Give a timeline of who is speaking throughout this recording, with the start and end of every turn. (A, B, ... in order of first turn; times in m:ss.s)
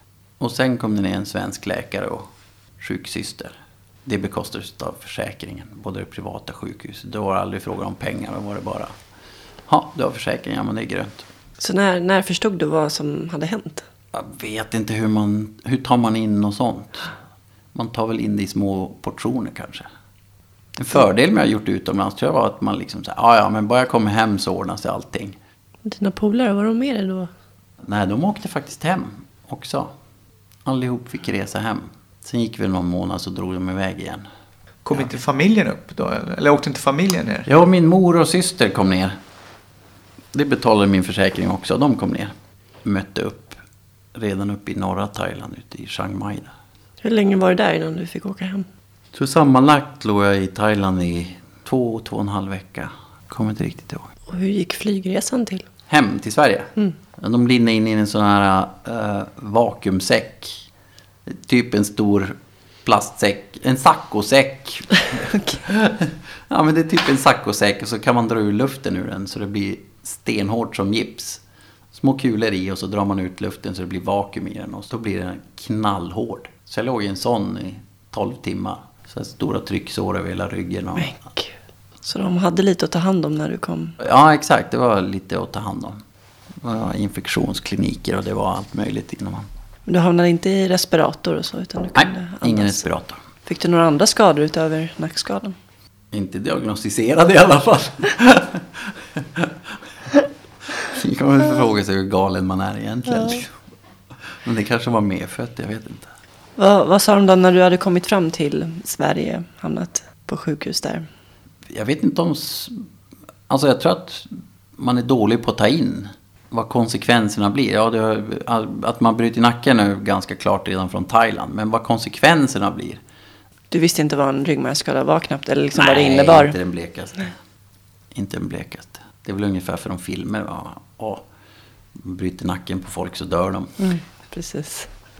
0:00.4-0:02.3 A
0:02.8-0:08.9 A
0:09.7-0:11.2 A
0:11.6-0:13.9 B
0:14.1-0:17.1 A
0:17.7-0:19.9 A
0:20.8-0:25.4 A
0:25.8-0:27.3 B
0:27.8-0:29.9 A
0:30.6-0:34.2 A
0:34.8-0:37.5 C
0:37.5-0:39.2 A
0:40.3-0:42.3 A
0:42.8-0:43.6 A
0:44.1-0:46.5 A
0:47.0-0:48.7 B
0:49.1-0:54.1 A
0:54.3-0:55.7 B
0:55.9-1:00.6 A
1:01.3-1:11.4 A
1:05.2-1:05.6 B
1:11.9-1:21.1 A
1:21.0-1:24.0 B
1:24.0-1:26.0 A
1:26.6-1:29.5 A
1:29.9-1:32.8 B
1:32.0-1:33.2 A
1:33.4-1:35.6 B
1:36.1-1:39.6 A
1:40.8-1:43.5 A
1:44.4-1:46.1 A
1:46.6-1:51.1 B
1:51.7-1:52.8 A
1:53.5-2:03.0 A
2:03.7-2:06.6 B
2:05.8-2:07.3 A
2:08.1-2:11.2 A
2:12.0-2:13.7 A
2:13.8-2:14.9 B